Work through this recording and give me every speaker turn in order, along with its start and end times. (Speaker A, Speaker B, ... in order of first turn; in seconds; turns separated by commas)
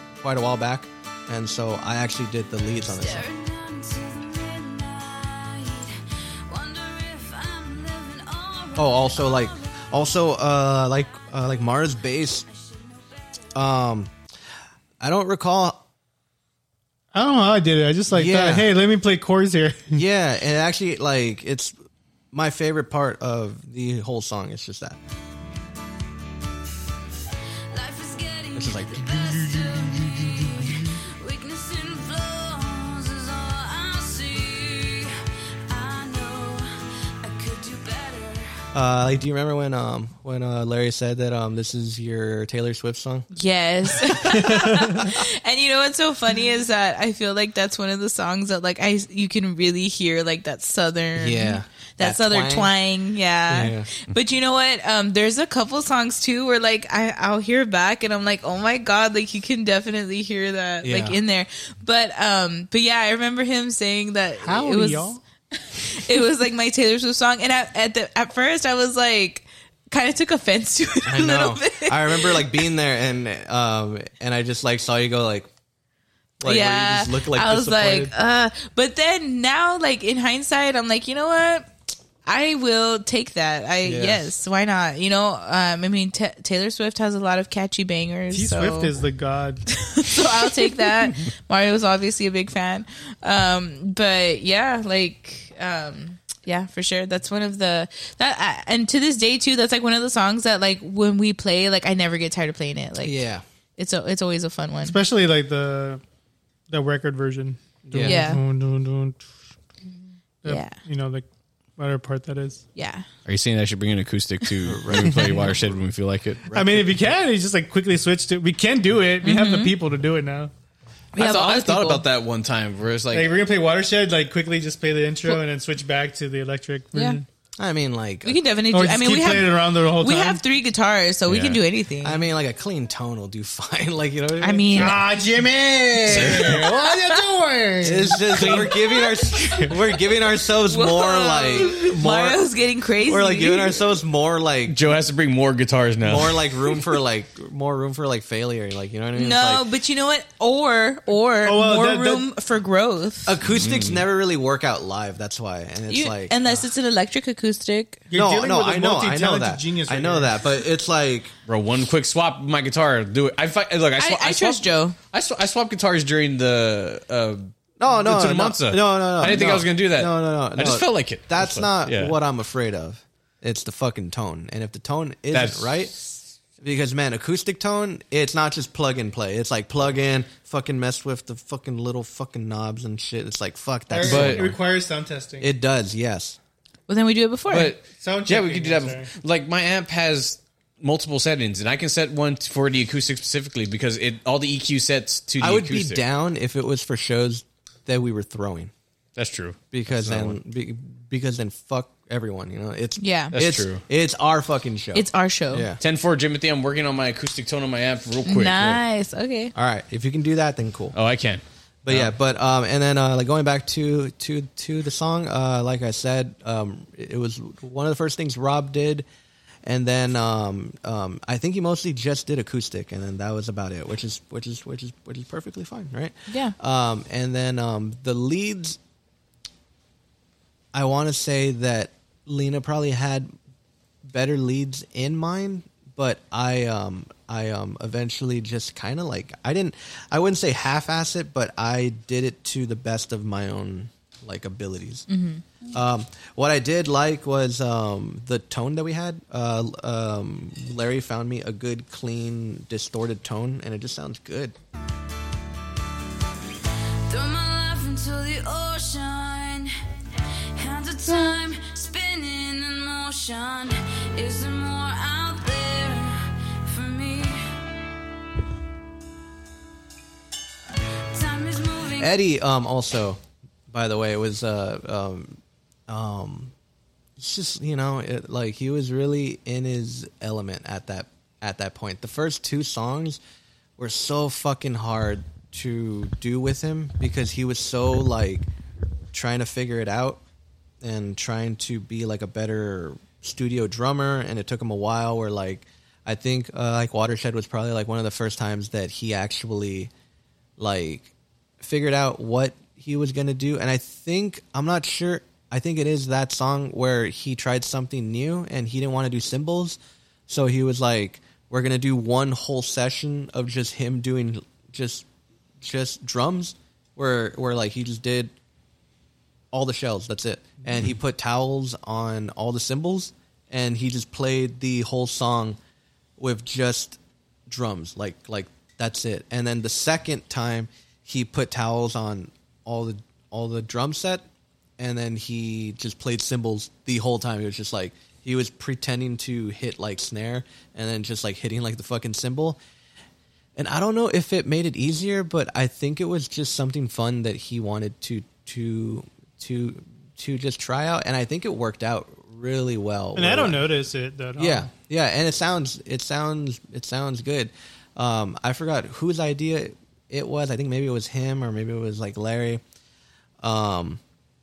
Speaker A: 0.2-3.3, Speaker B: 2.9-9.8, Speaker A: 8.7-12.5, Speaker B: 12.5-13.4, Speaker A: 13.5-14.1, Speaker A: 15.0-15.8, Speaker C: 17.1-20.0, Speaker A: 18.1-18.7, Speaker A: 19.9-21.7, Speaker A: 22.3-25.0, Speaker B: 27.7-35.1, Speaker A: 28.5-30.9, Speaker B: 35.7-36.7, Speaker B: 37.2-38.6, Speaker A: 38.7-43.3, Speaker D: 43.3-72.4, Speaker A: 44.0-45.2, Speaker A: 51.1-52.7, Speaker A: 53.5-53.9, Speaker A: 60.8-61.2, Speaker C: 64.4-65.2, Speaker A: 71.0-75.5, Speaker A: 76.4-78.1, Speaker D: 76.4-81.7, Speaker D: 82.2-88.9, Speaker A: 83.8-84.3, Speaker C: 88.3-89.6, Speaker D: 89.7-103.2, Speaker A: 103.0-103.4, Speaker D: 103.8-105.0, Speaker C: 104.8-106.0, Speaker C: 106.7-109.2, Speaker A: 107.9-108.2, Speaker D: 108.0-108.4, Speaker C: 110.4-112.6, Speaker D: 110.5-110.8, Speaker D: 112.8-113.0, Speaker E: 113.2-116.4, Speaker A: 114.6-115.8, Speaker A: 116.4-116.9, Speaker C: 116.5-120.5, Speaker D: 119.2-119.7, Speaker D: 121.1-122.0, Speaker E: 121.2-123.3, Speaker C: 123.1-127.2, Speaker D: 126.9-127.2, Speaker A: 127.6-128.4, Speaker D: 128.2-132.2, Speaker C: 128.7-130.4, Speaker E: 131.3-131.6, Speaker A: 132.0-135.0, Speaker D: 134.4-135.0, Speaker C: 134.7-138.7, Speaker A: 136.1-136.7, Speaker E: 136.1-136.7, Speaker D: 136.9-137.2, Speaker A: 137.8-142.4, Speaker E: 138.3-138.7, Speaker D: 140.7-143.8, Speaker A: 143.0-144.9, Speaker E: 144.7-146.5, Speaker A: 146.0-149.6, Speaker D: 149.1-153.3, Speaker C: 151.4-152.2, Speaker A: 153.2-156.4, Speaker E: 153.5-154.0, Speaker D: 155.9-158.0, Speaker C: 158.1-160.4, Speaker A: 158.1-161.3, Speaker E: 161.5-172.2, Speaker D: 164.0-164.9, Speaker A: 167.8-175.9, Speaker E: 175.3-176.0, Speaker A: 176.6-184.6, Speaker C: 183.9-185.5, Speaker E: 184.0-184.5, Speaker A: 185.4-186.4, Speaker D: 186.9-187.8, Speaker E: 187.5-196.0, Speaker C: 187.9-189.1, Speaker A: 195.4-198.7, Speaker E: 199.2-200.4, Speaker A: 199.7-205.8, Speaker D: 203.0-203.3, Speaker E: 203.3-203.8, Speaker D: 204.9-205.7, Speaker E: 205.8-208.8, Speaker D: 208.2-209.5, Speaker A: 209.5-210.9, Speaker E: 210.9-212.1, Speaker A: 211.8-219.0, Speaker A: 219.6-228.8, Speaker D: 226.3-226.5, Speaker A: 230.7-233.3, Speaker A: 234.0-245.1, Speaker D: 245.1-245.4, Speaker A: 245.7-254.5, Speaker B: 257.1-259.7, Speaker B: 260.5-267.5, Speaker B: 271.1-272.1, Speaker A: 272.0-276.5, Speaker A: 277.2-283.2, Speaker A: 283.8-288.5, Speaker A: 289.1-290.2, Speaker A: 290.8-299.9, Speaker A: 300.6-315.0, Speaker A: 315.6-318.3, Speaker A: 319.5-325.6, Speaker A: 326.2-334.2, Speaker A: 334.8-342.6, Speaker A: 343.6-353.7, Speaker C: 353.1-354.7, Speaker A: 354.4-362.6, Speaker A: 363.4-364.0